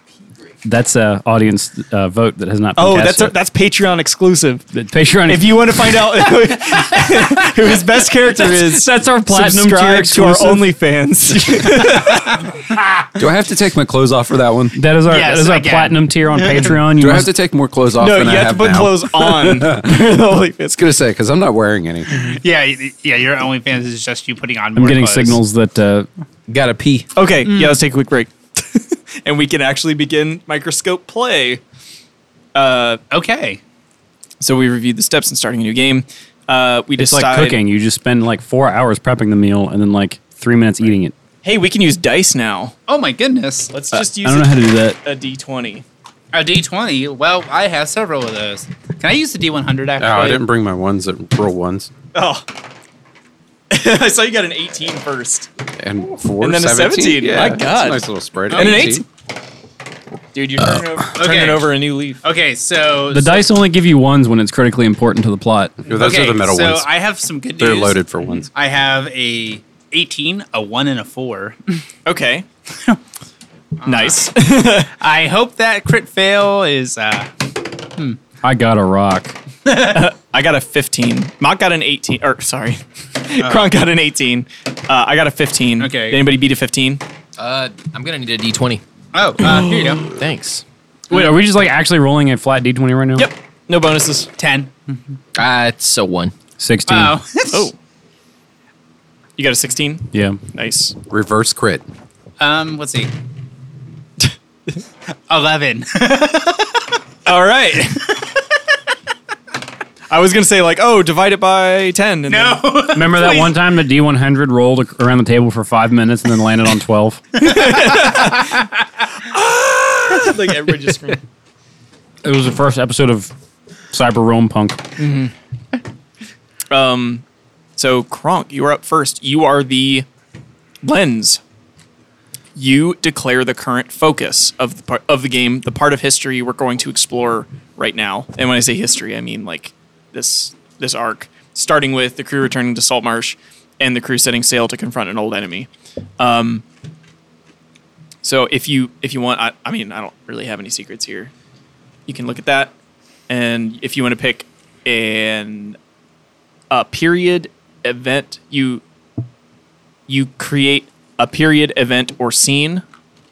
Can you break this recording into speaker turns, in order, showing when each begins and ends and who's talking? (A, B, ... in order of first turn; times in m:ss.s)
0:00.6-0:03.3 A
0:02.8-0:04.7 B
0:04.7-0:05.9 A
0:05.2-0:12.4 B
0:08.4-0:10.7 A
0:13.2-0:14.8 C
0:14.7-0:17.3 A
0:15.0-0:16.7 D
0:16.9-0:20.0 C
0:18.0-0:20.8 B
0:20.7-0:22.3 C
0:22.1-0:25.4 D
0:24.7-0:26.1 A
0:26.5-0:27.1 E
0:27.1-0:31.6 B
0:27.5-0:27.8 D
0:32.5-0:33.0 B
0:33.1-0:33.6 D
0:34.4-0:37.6 B
0:37.0-0:41.1 A
0:41.4-0:42.7 B
0:42.9-0:43.7 D
0:43.7-0:45.8 B
0:43.9-0:45.0 A
0:46.3-0:50.4 D
0:50.0-0:51.9 C
0:52.1-0:52.4 B
0:53.7-0:55.5 B
0:55.8-0:59.0 C
0:56.4-0:59.0 B
0:58.5-0:59.0 D
1:00.3-1:02.2 B
1:01.1-1:03.5 D
1:03.1-1:05.8 A
1:05.8-1:06.9 C
1:05.8-1:11.8 D
1:07.6-1:08.5 C
1:12.0-1:12.4 B
1:13.8-1:14.2 D
1:13.8-1:14.9 B
1:15.0-1:18.2 D
1:18.4-1:19.3 A
1:19.6-1:20.0 D
1:19.7-1:27.0 B
1:23.4-1:23.7 D
1:25.8-1:26.2 D
1:27.4-1:28.8 E
1:29.1-1:30.1 D
1:29.4-1:30.6 E
1:31.1-1:33.3 A
1:33.2-1:34.3 B
1:34.4-1:35.0 D
1:35.3-1:36.3 E
1:36.6-1:37.2 A
1:36.9-1:37.7 D
1:39.4-1:41.0 B
1:40.1-1:40.4 A
1:41.1-1:41.8 C
1:42.4-1:43.1 D
1:45.3-1:46.8 D
1:47.2-1:48.2 B
1:50.1-1:52.6 B
1:52.3-1:53.6 D
1:52.9-1:57.4 A
1:57.4-1:58.6 B
1:57.9-1:58.2 D
1:59.3-2:01.2 B
2:02.2-2:03.3 A
2:03.9-2:04.9 A
2:05.0-2:05.3 B
2:06.7-2:07.2 B
2:07.8-2:10.0 B
2:10.8-2:11.4 B
2:12.6-2:26.6 B
2:28.2-2:31.3 B
2:32.1-2:32.7 B
2:33.3-2:35.8 B
2:36.7-2:38.8 B
2:40.1-2:42.8 B